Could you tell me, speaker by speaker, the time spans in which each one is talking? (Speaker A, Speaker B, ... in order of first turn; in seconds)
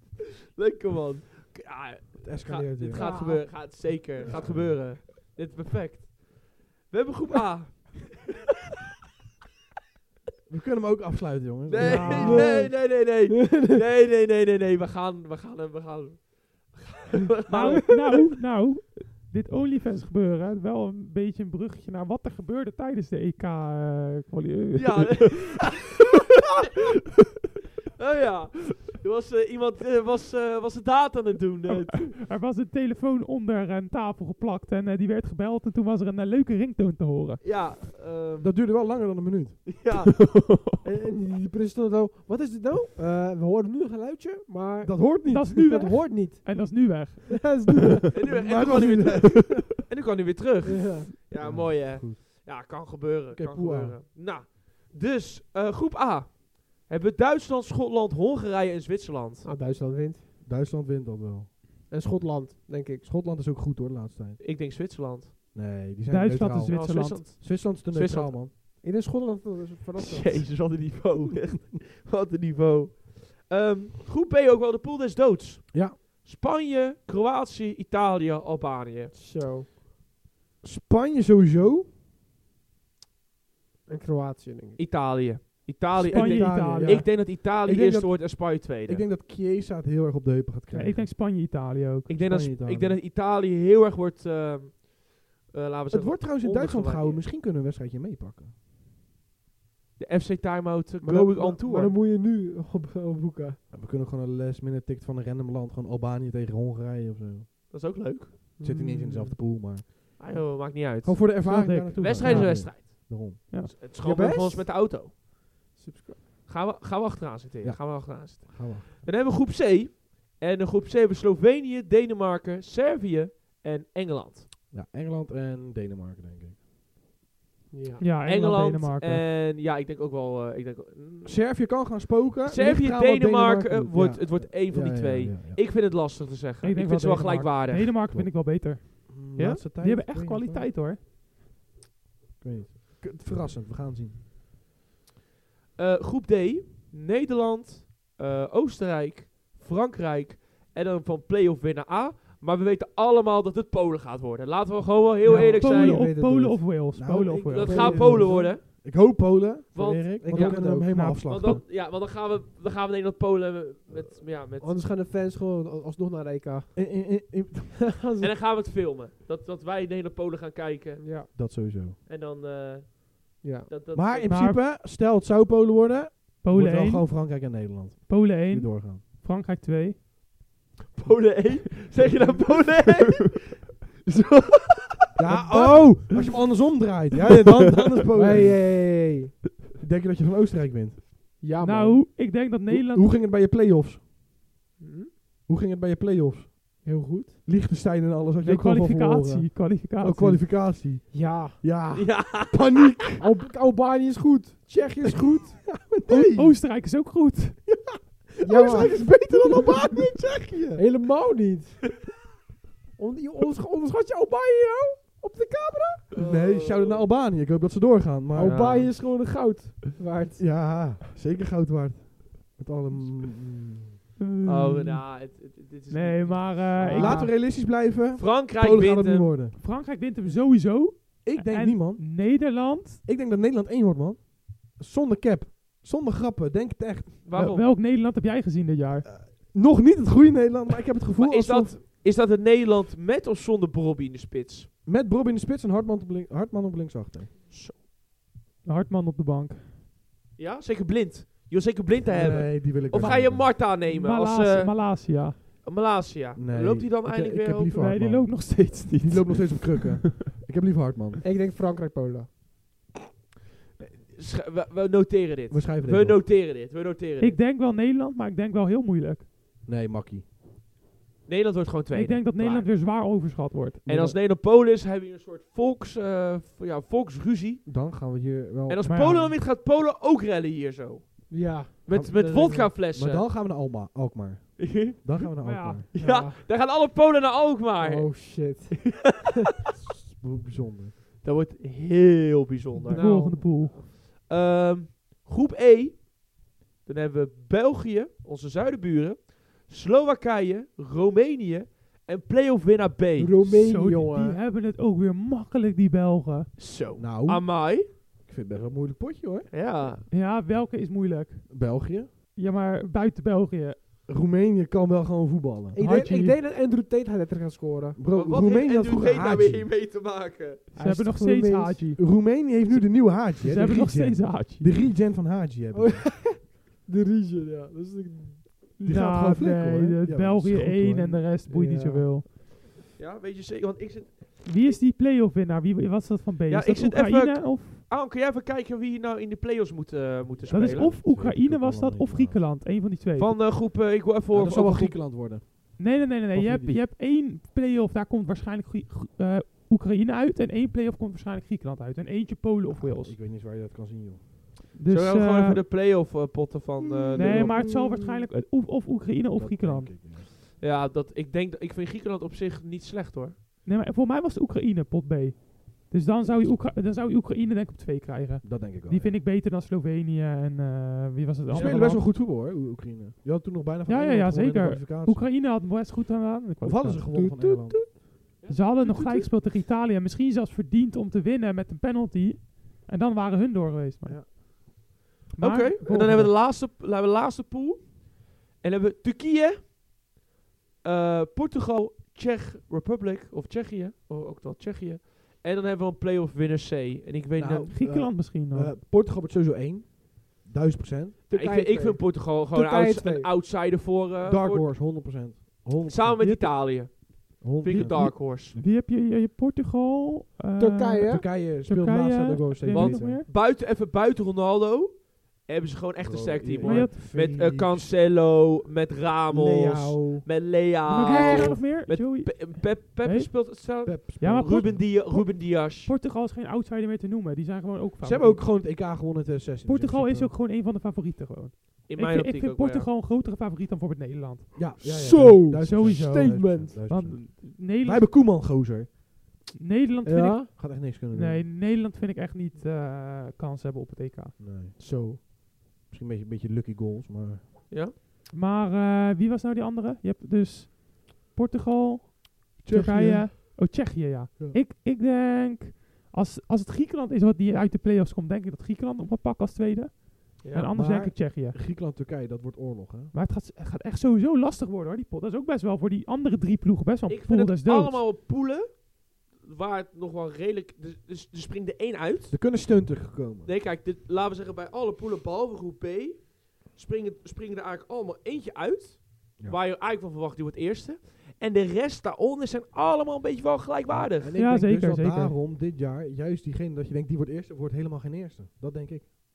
Speaker A: 0.6-8.2, 11.7-18.0, 24.7-26.0, 28.0-32.2, 37.4-38.5, 39.6-40.4, 48.1-59.5, 64.4-65.3, 66.7-68.4, 70.0-79.1, 84.8-89.0, 92.1-97.2, 100.0-102.0, 107.7-108.4, 110.2-115.1, 116.5-124.5, 128.2-131.4, 132.4-137.9, 139.3-139.6, 145.8-156.1, 157.4-158.8, 159.7-164.8, 168.2-171.3, 172.1-174.4, 180.9-186.3, 201.9-203.2, 216.1-217.1, 218.4-218.9, 224.4-227.2, 228.1-229.3, 237.2-237.7, 241.2-244.7, 247.5-247.8, 250.4-257.9, 263.8-267.4, 271.2-272.7, 273.8-277.6, 278.7-283.3, 284.6-289.1, 291.2-296.1, 296.8-303.3, 306.6-307.9, 309.5-310.1, 318.1-320.6, 333.0-334.5, 336.5-340.9, 343.2-345.0, 354.9-357.6, 360.6-363.4, 378.4-379.3, 385.4-389.7, 390.8-397.7, 401.3-404.7, 405.9-408.6, 412.7-425.9, 431.9-432.9, 447.7-447.9, 460.4-460.7, 467.1-472.4, 473.4-484.4
Speaker B: 2.2-3.1, 4.2-4.8, 10.5-12.6, 38.4-39.7, 44.8-45.6, 48.2-49.6, 51.3-52.4, 53.3-54.0, 60.4-61.6, 63.0-64.4, 65.5-68.5, 75.7-76.0, 80.6-81.9, 85.9-91.1, 92.1-93.0, 95.9-98.5, 103.7-107.5, 108.6-109.8, 111.0-113.5, 117.6-119.0, 124.7-126.6, 131.2-135.6, 138.1-140.7, 142.4-144.2, 156.9-161.6, 166.7-167.9, 171.3-172.0, 173.9-179.0, 185.2-188.7, 189.8-191.1, 192.7-194.0, 195.5-196.9, 197.4-203.2, 205.0-206.6, 207.7-210.8, 216.1-218.8, 220.4-223.9, 226.8-229.6, 231.2-237.5, 239.1-241.8, 244.8-247.3, 252.0-253.5, 256.3-261.2, 265.5-266.2, 269.6-270.2, 273.9-274.2, 277.6-278.8, 281.9-285.9, 290.0-290.9, 306.9-309.5, 311.5-312.1, 314.1-315.8, 317.9-319.7, 322.0-326.2, 328.8-331.3, 340.4-342.5, 344.3-346.8, 352.7-354.2, 357.1-357.9, 359.3-360.3, 368.4-369.2, 371.5-375.3, 376.6-377.8, 384.1-384.3, 397.4-401.2, 404.2-406.3, 407.4-408.1, 411.0-413.2, 416.0-417.9, 423.8-424.8, 428.0-430.3, 434.5-438.9, 440.5-441.5, 444.4-445.3, 445.9-447.4, 452.6-453.6, 460.7-463.1, 472.3-473.5, 483.9-489.2
Speaker C: 2.9-3.7, 12.2-13.8, 40.8-48.3, 50.6-51.1, 59.4-60.3, 61.9-63.0, 68.8-70.5, 79.1-79.7, 83.9-84.8, 101.0-103.6, 108.6-109.4, 114.0-114.7, 115.8-116.2, 127.7-128.0, 155.2-156.8, 157.6-158.5, 160.2-161.0, 164.6-166.8, 168.0-168.3, 171.0-171.3, 173.4-173.7, 182.0-183.1, 188.1-189.4, 191.4-192.0, 194.8-195.1, 196.8-197.4, 201.1-201.6, 203.2-205.7, 208.4-209.9, 210.7-211.9, 213.0-216.1, 218.3-220.4, 226.9-227.3, 261.2-262.3, 281.3-282.7, 285.9-286.4, 287.8-289.2, 292.9-293.6, 303.2-304.4, 315.7-318.0, 320.7-321.9, 325.7-328.8, 331.5-332.1, 357.5-358.2, 377.1-377.9, 401.3-403.3, 410.6-411.2, 419.3-420.3, 421.1-421.6, 434.8-436.8, 440.0-440.5, 444.8-445.2
Speaker D: 11.8-12.5, 17.5-25.7, 31.7-37.5, 40.2-40.8, 45.3-47.7, 66.1-67.2, 86.1-87.0, 90.7-92.1, 111.4-113.7, 128.0-129.2, 136.6-141.0, 155.2-157.9, 160.9-161.6, 174.3-174.6, 176.4-180.0, 191.6-193.1, 198.4-200.5, 206.1-207.7, 224.2-225.2, 225.9-227.2, 229.5-233.0, 237.3-239.1, 248.6-249.7, 253.6-255.4, 257.8-260.1, 267.2-269.3, 271.9-273.9, 278.9-279.4, 285.4-285.8, 292.8-293.8, 303.4-306.5, 310.1-311.8, 312.3-313.8, 315.8-316.4, 320.8-324.7, 328.8-332.2, 334.4-337.8, 340.5-343.3, 345.8-353.1, 354.7-355.6, 357.1-359.9, 363.6-372.1, 373.9-377.0, 378.5-384.4, 385.4-386.3, 397.7-398.7, 406.2-413.3, 416.6-416.9, 420.9-423.3, 424.2-428.5, 429.6-434.6, 435.6-438.1, 439.6-444.4, 448.3-461.6, 463.1-468.0, 484.3-485.3